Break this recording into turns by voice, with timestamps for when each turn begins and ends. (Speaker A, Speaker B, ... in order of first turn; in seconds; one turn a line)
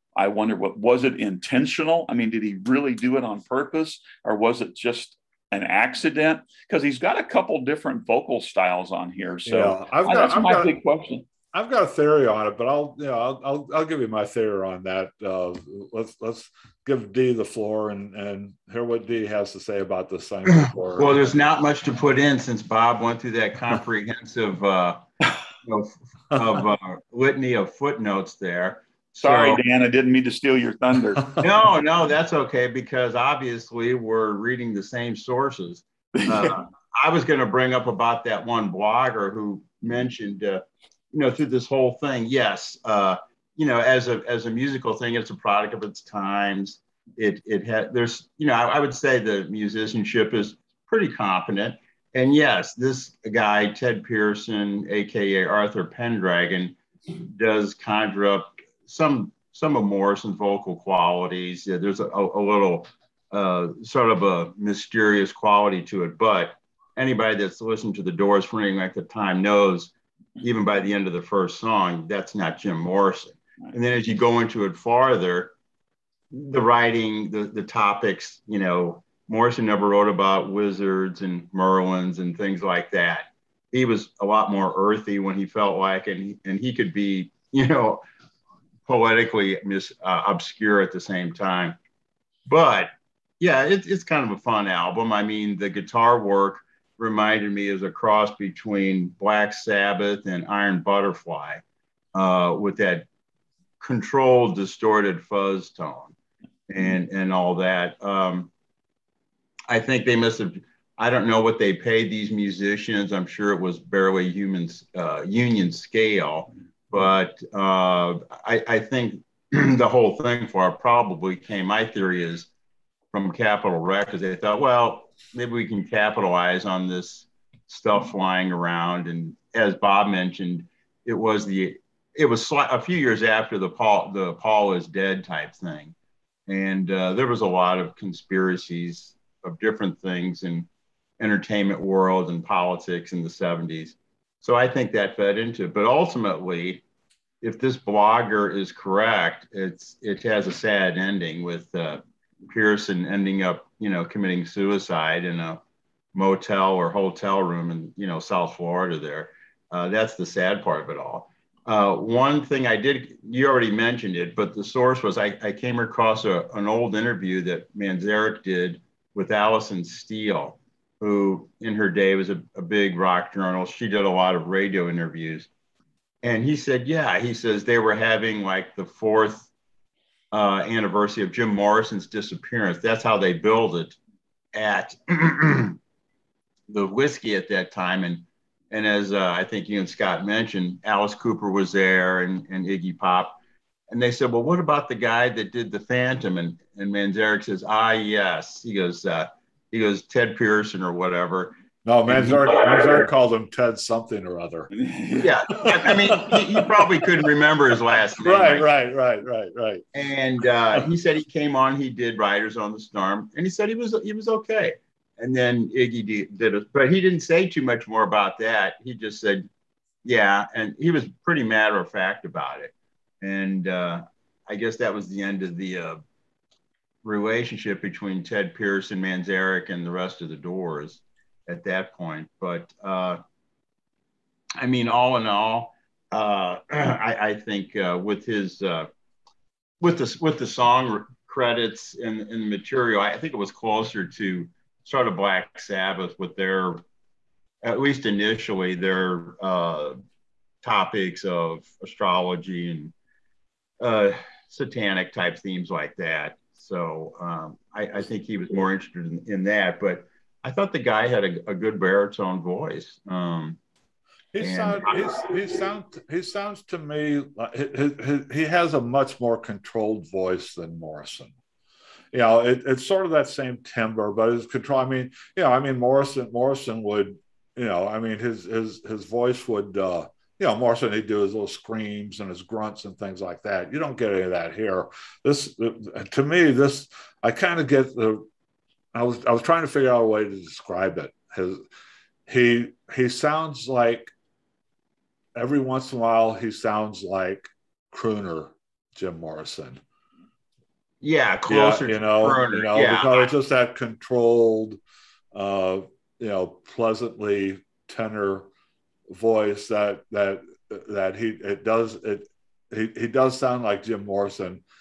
Speaker A: 0.1-11.3
Speaker B: 9.4-10.7
Speaker B: 11.5-21.3
Speaker C: 20.6-29.6
Speaker A: 29.2-31.4
Speaker B: 31.2-31.5
Speaker C: 31.4-75.5
Speaker C: 76.3-88.0
Speaker C: 88.8-91.8
Speaker C: 92.5-101.6
Speaker C: 102.1-103.1
Speaker C: 103.8-106.2
Speaker C: 106.7-108.5
Speaker C: 109.7-122.5
Speaker C: 123.1-135.9
Speaker C: 136.5-140.7
Speaker C: 141.2-146.8
Speaker C: 147.4-155.6
Speaker C: 156.1-175.5
Speaker C: 176.2-179.5
Speaker C: 180.3-184.0
Speaker C: 184.5-185.8
Speaker C: 186.7-203.1
Speaker B: 201.8-204.7
Speaker A: 204.7-205.3
Speaker C: 205.2-208.7
Speaker B: 205.5-206.7
Speaker B: 208.2-209.8
Speaker C: 209.9-219.5
Speaker C: 220.0-226.0
Speaker C: 227.0-233.2
Speaker C: 234.6-238.9
Speaker C: 239.8-246.8
Speaker C: 247.6-249.9
Speaker C: 250.6-252.9
Speaker C: 253.8-263.6
Speaker B: 264.3-271.3
Speaker C: 264.4-265.5
Speaker B: 272.1-288.2
Speaker B: 288.9-291.6
Speaker B: 292.3-294.1
Speaker B: 295.4-299.8
Speaker C: 301.0-303.3
Speaker B: 301.5-304.8
Speaker B: 305.3-308.5
Speaker B: 309.1-314.6